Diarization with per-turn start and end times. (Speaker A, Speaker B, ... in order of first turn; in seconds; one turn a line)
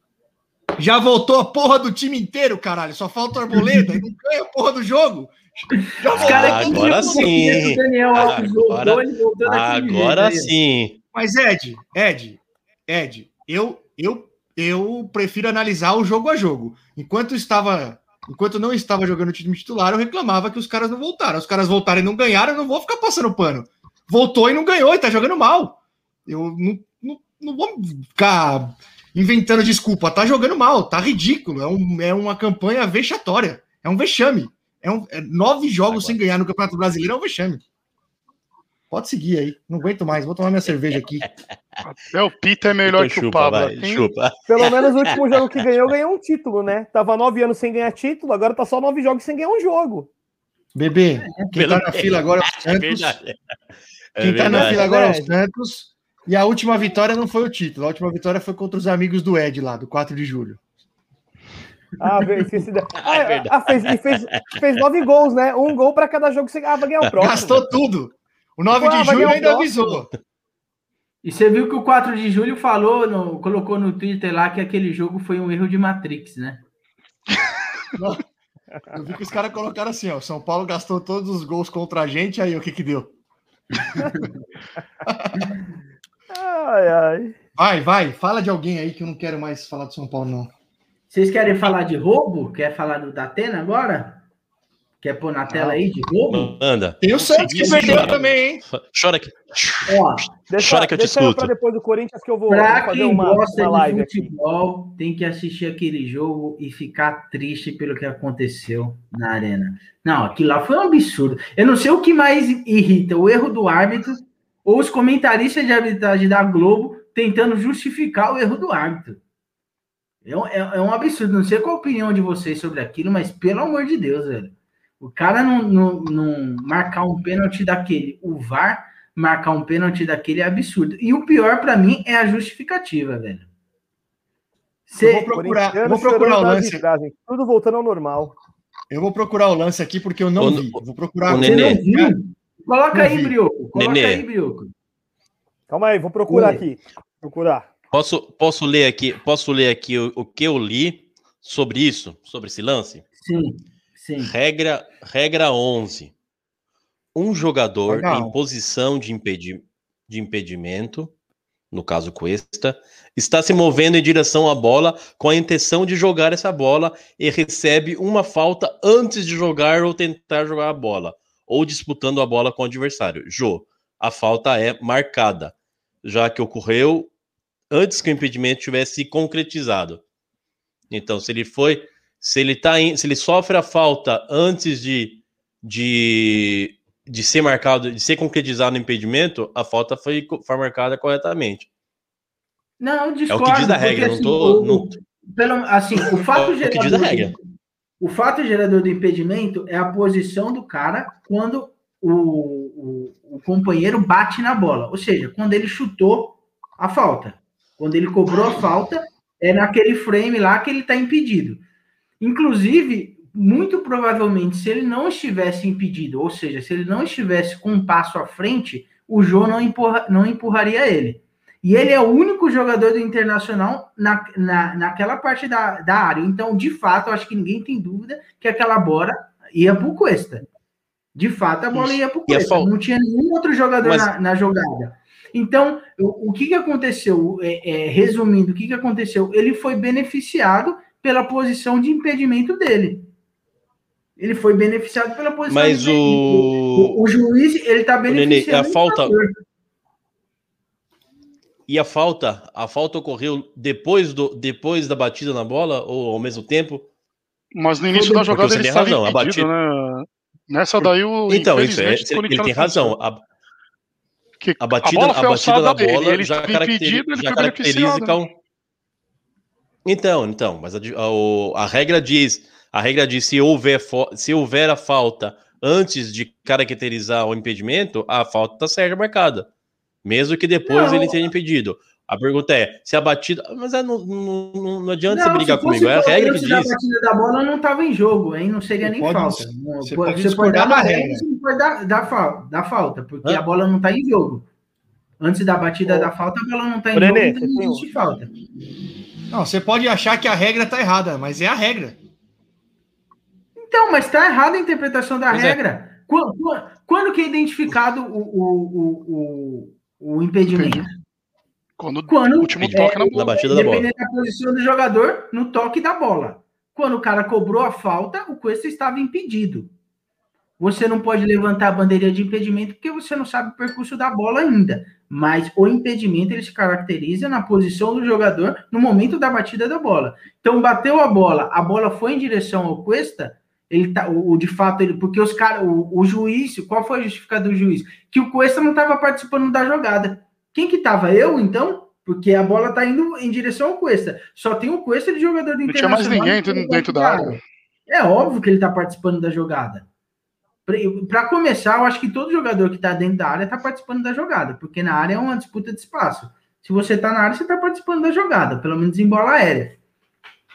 Speaker A: 0.8-7.3
Speaker B: 3.5-3.9
Speaker B: 6.0-10.5
Speaker C: 6.1-10.9
Speaker A: 11.1-37.6
Speaker C: 35.9-36.1
Speaker A: 38.9-41.3
Speaker D: 41.8-44.0
Speaker C: 42.8-45.4
Speaker E: 44.5-50.1
Speaker A: 50.7-53.2
Speaker C: 51.5-53.3
Speaker C: 54.1-54.8
Speaker A: 54.2-60.6
Speaker E: 54.5-55.3
Speaker E: 62.0-67.6
Speaker C: 63.0-64.3
Speaker A: 67.2-70.1
Speaker E: 68.7-70.0
Speaker B: 71.2-76.6
Speaker A: 77.9-78.2
Speaker A: 78.9-83.1
Speaker B: 83.7-84.4
Speaker A: 85.0-85.5
Speaker E: 86.3-87.3
Speaker A: 87.5-90.5
Speaker B: 91.1-94.2
Speaker B: 95.0-96.6
Speaker C: 96.3-101.5
Speaker A: 97.0-98.6
Speaker D: 97.4-97.8
Speaker B: 99.9-100.3
Speaker E: 100.5-104.3
Speaker B: 102.5-119.2
Speaker B: 120.2-133.5
Speaker B: 134.9-135.3
Speaker A: 135.0-136.8
Speaker E: 135.3-138.4
Speaker A: 138.9-142.1
Speaker C: 140.4-141.8
Speaker B: 141.4-144.7
Speaker A: 142.9-143.3
Speaker C: 143.7-144.2
Speaker E: 145.7-147.7
Speaker B: 146.3-146.6
Speaker C: 147.9-153.0
Speaker B: 153.2-154.3
Speaker C: 154.2-156.1
Speaker C: 157.1-161.1
Speaker A: 157.9-158.3
Speaker C: 161.7-177.1
Speaker C: 177.7-180.0
Speaker C: 180.9-191.7
Speaker B: 192.8-197.4
Speaker C: 193.3-194.9
Speaker C: 196.3-197.3
Speaker B: 198.0-211.6
Speaker B: 212.2-230.4
Speaker B: 231.1-243.1
Speaker C: 231.7-232.7
Speaker C: 233.8-234.1
Speaker B: 244.2-249.3
Speaker C: 245.5-247.0
Speaker C: 248.1-249.2
Speaker C: 251.7-256.9
Speaker D: 257.5-262.9
Speaker B: 257.9-258.4
Speaker C: 258.3-259.5
Speaker C: 260.8-263.2
Speaker D: 264.4-268.2
Speaker C: 264.6-268.3
Speaker C: 269.8-279.5
Speaker C: 280.0-286.7
Speaker B: 280.6-281.3
Speaker B: 285.1-294.5
Speaker A: 288.8-291.2
Speaker B: 295.2-298.3
Speaker E: 296.9-297.9
Speaker A: 299.3-302.0
Speaker B: 303.6-310.9
Speaker C: 305.3-305.6
Speaker D: 310.5-310.8
Speaker D: 311.8-313.5
Speaker B: 312.1-319.7
Speaker C: 312.6-313.9
Speaker B: 320.6-349.9
Speaker D: 345.6-347.4
Speaker B: 350.6-359.8